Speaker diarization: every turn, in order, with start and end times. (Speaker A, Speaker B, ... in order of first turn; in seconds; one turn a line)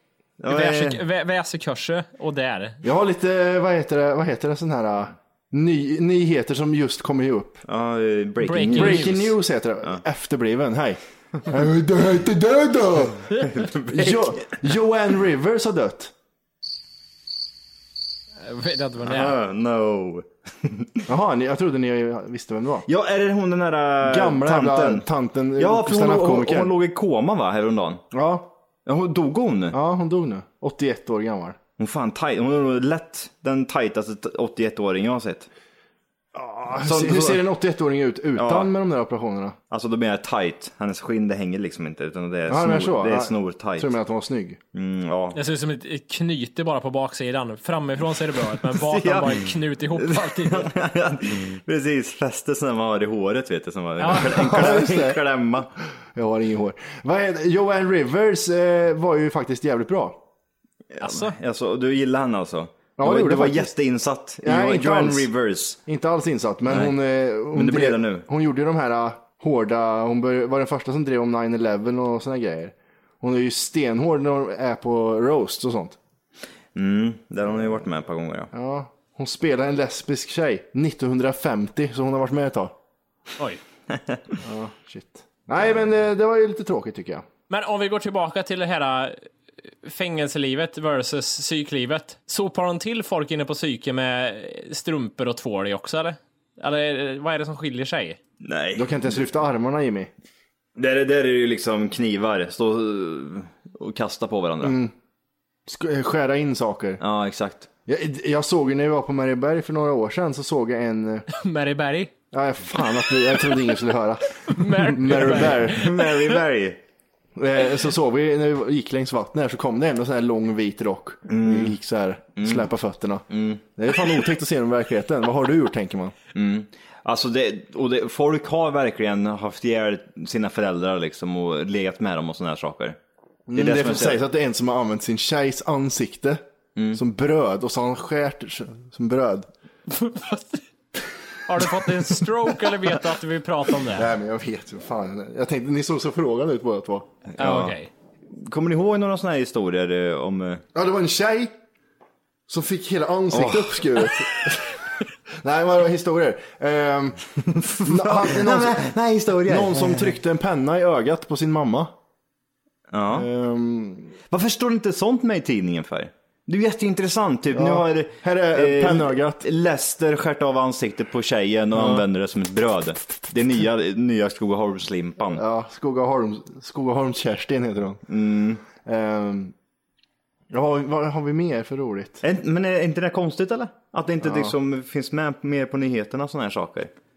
Speaker A: 0.4-1.0
Speaker B: 0.5-2.8
Speaker C: 2.8-7.6
Speaker A: 7.7-9.2
Speaker B: 8.4-9.3
Speaker C: 8.7-16.1
Speaker A: 13.4-14.5
Speaker B: 18.4-19.4
Speaker A: 19.0-21.1
Speaker C: 21.1-22.9
Speaker A: 22.9-25.1
Speaker C: 24.0-26.7
Speaker A: 25.6-28.0
Speaker C: 28.1-28.5
Speaker A: 28.9-29.8
Speaker C: 29.7-31.6
Speaker A: 31.8-35.5
Speaker C: 36.3-39.6
Speaker A: 36.8-37.4
Speaker A: 38.4-38.7
Speaker A: 39.7-43.9
Speaker C: 42.5-44.6
Speaker A: 44.7-45.4
Speaker B: 45.3-50.7
Speaker A: 48.7-55.7
Speaker B: 54.0-54.5
Speaker C: 54.1-55.2
Speaker C: 56.1-60.2
Speaker A: 60.9-65.8
Speaker B: 61.0-61.3
Speaker C: 63.0-63.7
Speaker C: 64.4-65.3
Speaker C: 65.8-76.0
Speaker A: 66.7-66.9
Speaker A: 67.5-68.2
Speaker A: 76.7-78.5
Speaker C: 78.5-82.7
Speaker A: 83.9-84.2
Speaker C: 84.4-87.2
Speaker B: 87.5-89.3
Speaker B: 89.8-98.2
Speaker A: 98.4-99.0
Speaker C: 98.7-100.1
Speaker A: 100.8-104.8
Speaker C: 104.6-104.9
Speaker C: 105.7-107.0
Speaker A: 107.0-107.7
Speaker C: 107.9-111.2
Speaker B: 111.3-112.1
Speaker C: 112.3-115.9
Speaker B: 114.4-116.2
Speaker A: 115.1-116.8
Speaker C: 117.3-123.2
Speaker A: 121.3-121.8
Speaker A: 122.4-122.7
Speaker A: 123.3-123.6
Speaker C: 123.8-126.1
Speaker A: 126.3-133.0
Speaker C: 133.5-136.4
Speaker A: 133.5-134.2
Speaker C: 136.9-139.5
Speaker B: 139.9-140.6
Speaker B: 141.5-144.1
Speaker C: 143.9-147.1
Speaker A: 147.3-147.8
Speaker B: 147.4-147.9
Speaker A: 148.3-150.6
Speaker C: 150.7-151.5
Speaker C: 152.5-154.8
Speaker A: 153.3-154.1
Speaker C: 155.4-157.2
Speaker A: 157.4-160.2
Speaker C: 157.8-158.9
Speaker C: 159.4-161.9
Speaker A: 162.9-163.3
Speaker C: 163.1-164.1
Speaker A: 164.3-175.4
Speaker C: 167.5-169.4
Speaker C: 171.7-172.0
Speaker C: 175.3-178.0
Speaker A: 178.1-178.6
Speaker C: 178.8-179.5
Speaker C: 180.5-182.2
Speaker A: 182.2-186.9
Speaker C: 184.2-184.5